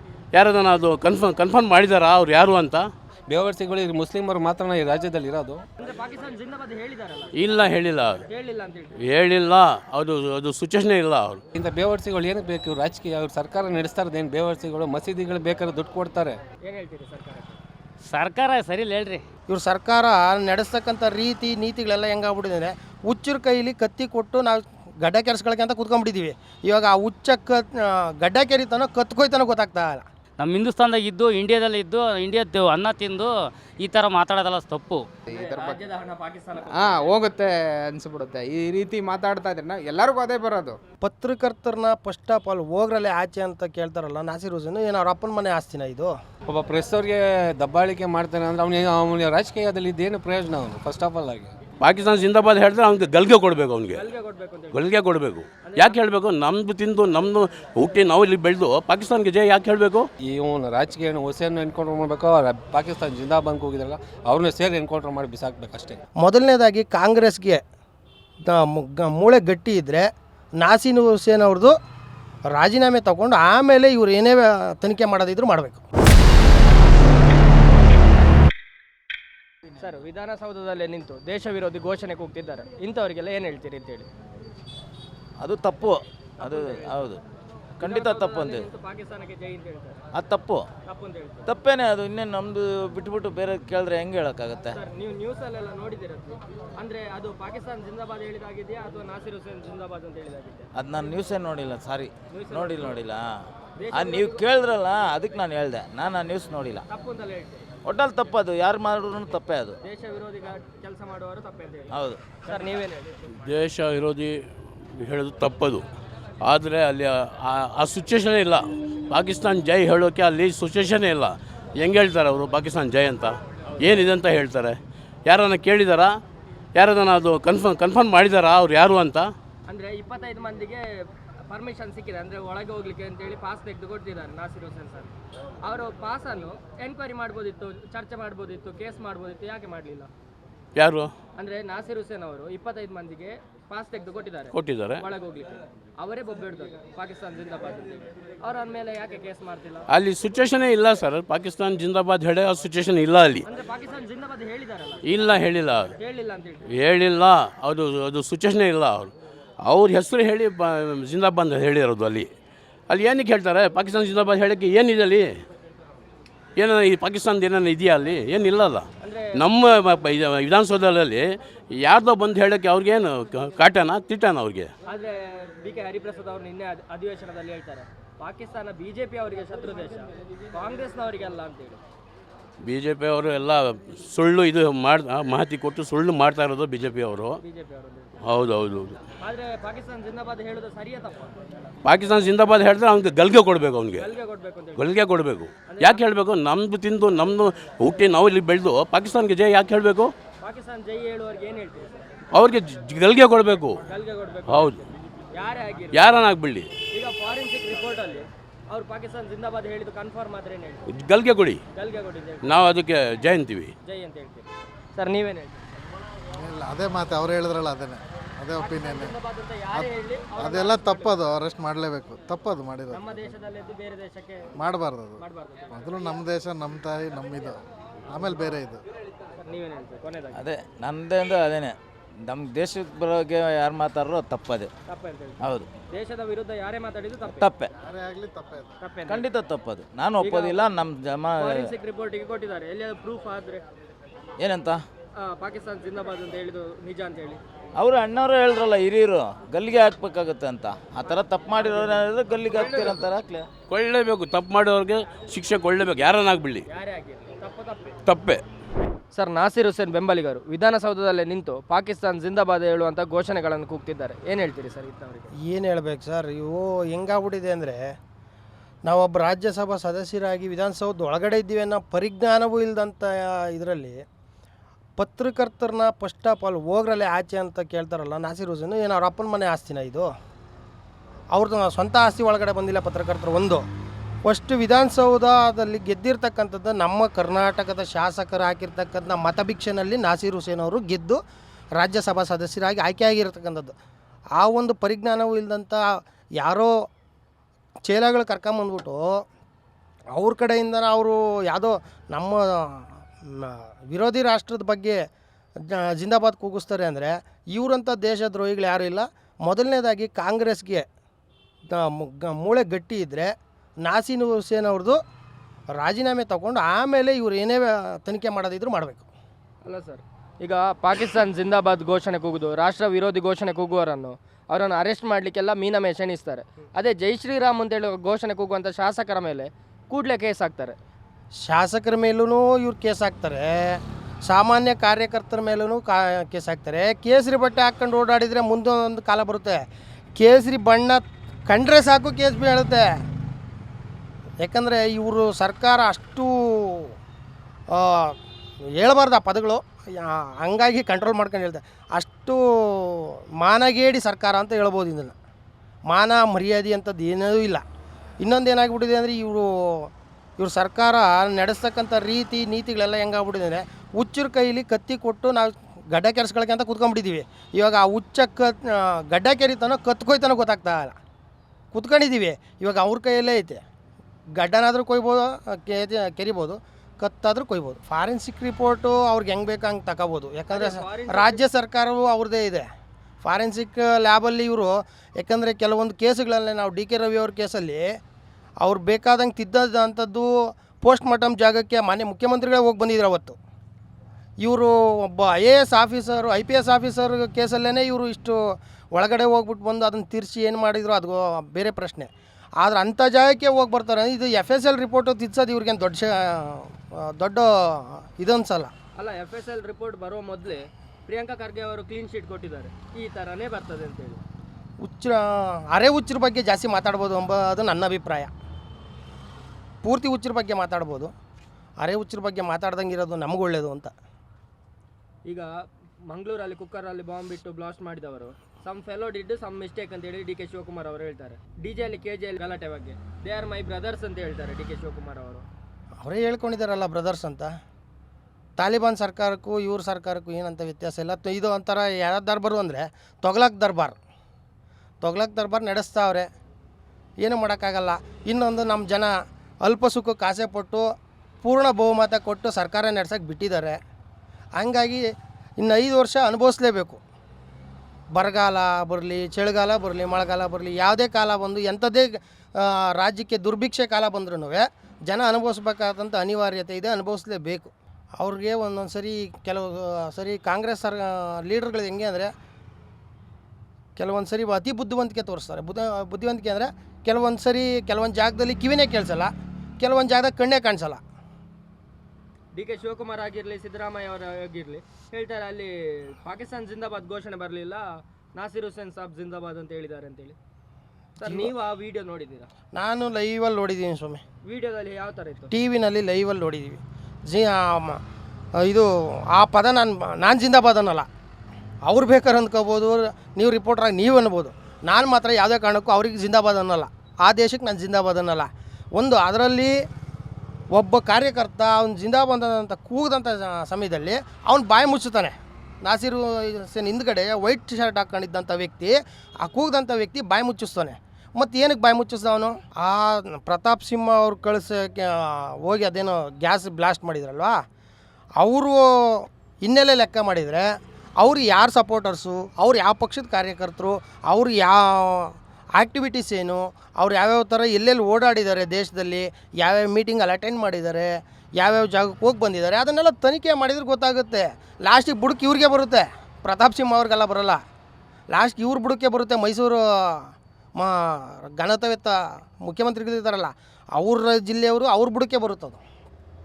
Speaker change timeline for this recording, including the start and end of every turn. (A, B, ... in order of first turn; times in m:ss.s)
0:00.3-0:02.9 A
0:03.3-0:05.6 B
0:05.8-0:07.6 C
0:07.3-0:08.2 A
0:08.3-0:08.9 C
0:09.0-0:11.4 A
0:11.5-0:16.4 B
0:16.6-0:17.6 C
0:18.1-0:19.2 D
0:19.5-0:30.0 E
0:30.4-0:33.3 D
0:33.8-0:35.0 D
0:35.2-0:35.8 F
0:35.3-0:37.2 C
0:36.6-0:40.8 F
0:41.0-0:46.2 E
0:46.5-0:51.5 B
0:51.8-0:54.1 A
0:53.9-0:54.8 C
0:54.7-1:00.1 A
0:55.6-0:56.0 C
1:00.2-1:06.0 B
1:06.2-1:07.6 E
1:08.4-1:11.8 E
1:12.5-1:15.8 E
1:19.8-1:24.1 C
1:25.4-1:27.2 G
1:26.4-1:27.0 C
1:27.8-1:28.7 G
1:27.8-1:30.0 C
1:30.1-1:30.7 G
1:30.9-1:31.5 C
1:31.4-1:34.8 G
1:34.7-1:40.7 C
1:40.7-1:43.4 G
1:42.3-1:43.0 C
1:43.8-1:44.4 C
1:43.9-1:46.8 G
1:46.9-1:47.7 C
1:47.8-1:49.8 G
1:49.8-1:51.9 C
1:51.9-1:52.2 G
1:52.4-1:53.2 C
1:53.4-1:55.8 A
1:56.4-2:06.2 A
2:06.7-2:09.3 A
2:09.7-2:20.1 C
2:20.8-2:21.1 A
2:21.4-2:29.8 C
2:24.5-2:25.0 A
2:29.9-2:33.4 A
2:33.4-2:35.3 C
2:35.0-2:35.9 A
2:36.0-2:36.6 C
2:36.7-2:39.1 A
2:39.6-2:42.3 A
2:42.9-2:45.4 A
2:46.6-2:54.7 A
2:49.0-2:49.4 C
2:54.9-3:01.8 C
3:02.6-3:07.4 A
3:07.4-3:08.2 C
3:08.2-3:09.0 A
3:09.2-3:11.6 C
3:11.8-3:14.1 A
3:14.0-3:14.9 C
3:14.7-3:20.1 A
3:15.7-3:16.0 C
3:20.4-3:22.1 C
3:22.3-3:23.8 A
3:23.8-3:26.1 C
3:24.5-3:24.8 A
3:25.9-3:26.7 A
3:26.9-3:30.8 C
3:30.9-3:31.6 A
3:31.7-3:32.5 C
3:32.4-3:33.7 A
3:33.8-3:35.8 C
3:36.3-3:39.2 H
3:38.6-3:41.2 C
3:39.7-3:43.3 H
3:42.9-3:44.5 C
3:44.6-3:48.8 H
3:45.2-3:45.9 C
3:49.4-3:50.4 C
3:50.3-3:54.7 G
3:54.9-3:57.4 C
3:55.4-3:55.7 G
3:57.3-3:57.7 G
3:57.8-3:58.7 H
3:58.8-3:59.2 C
3:59.1-4:01.7 G
4:00.2-4:00.6 C
4:01.4-4:03.6 C
4:04.4-4:04.8 G
4:05.2-4:07.4 C
4:07.8-4:13.5 G
4:12.5-4:13.0 C
4:13.7-4:16.6 A
4:16.7-4:18.0 C
4:18.0-4:18.4 A
4:19.1-4:25.3 C
4:25.4-4:28.0 E
4:28.8-4:34.0 E
4:35.0-4:40.1 E
4:41.3-4:43.6 E
4:44.2-4:51.2 E
4:51.8-4:53.7 E
4:54.4-4:56.9 E
4:57.9-4:59.2 E
5:00.1-5:05.0 E
5:05.6-5:10.8 E
5:11.7-5:15.0 E
5:15.7-5:19.1 E
5:19.6-5:30.8 C
5:31.4-5:39.6 E
5:40.2-5:43.0 E
5:44.4-5:46.9 E
5:47.7-5:48.2 E
5:48.7-5:55.2 E
5:55.9-5:57.6 E
5:58.2-6:11.0 E
6:11.7-6:13.6 E
6:14.4-6:22.7 E
6:20.5-6:21.4 C
6:23.2-6:28.0 E
6:28.6-6:33.4 E
6:34.4-6:48.7 E
6:49.0-6:54.2 C
6:54.8-6:58.3 E
6:59.8-7:01.1 E
7:01.8-7:03.9 E
7:06.1-7:15.4 C
7:16.0-7:17.5 E
7:18.6-7:24.0 E
7:25.0-7:26.3 E
7:27.2-7:30.9 E
7:31.4-7:33.8 E
7:34.6-7:37.0 E
7:38.1-7:52.3 E
7:54.0-8:01.0 E
8:02.5-8:10.4 C
8:11.2-8:12.5 C
8:11.2-8:11.5 E
8:12.7-8:14.2 E
8:14.4-8:15.5 C
8:15.5-8:18.0 E
8:18.6-8:21.1 E
8:21.8-8:29.8 E
8:30.7-8:47.6 E
8:48.4-9:07.6 E
9:08.3-9:15.8 E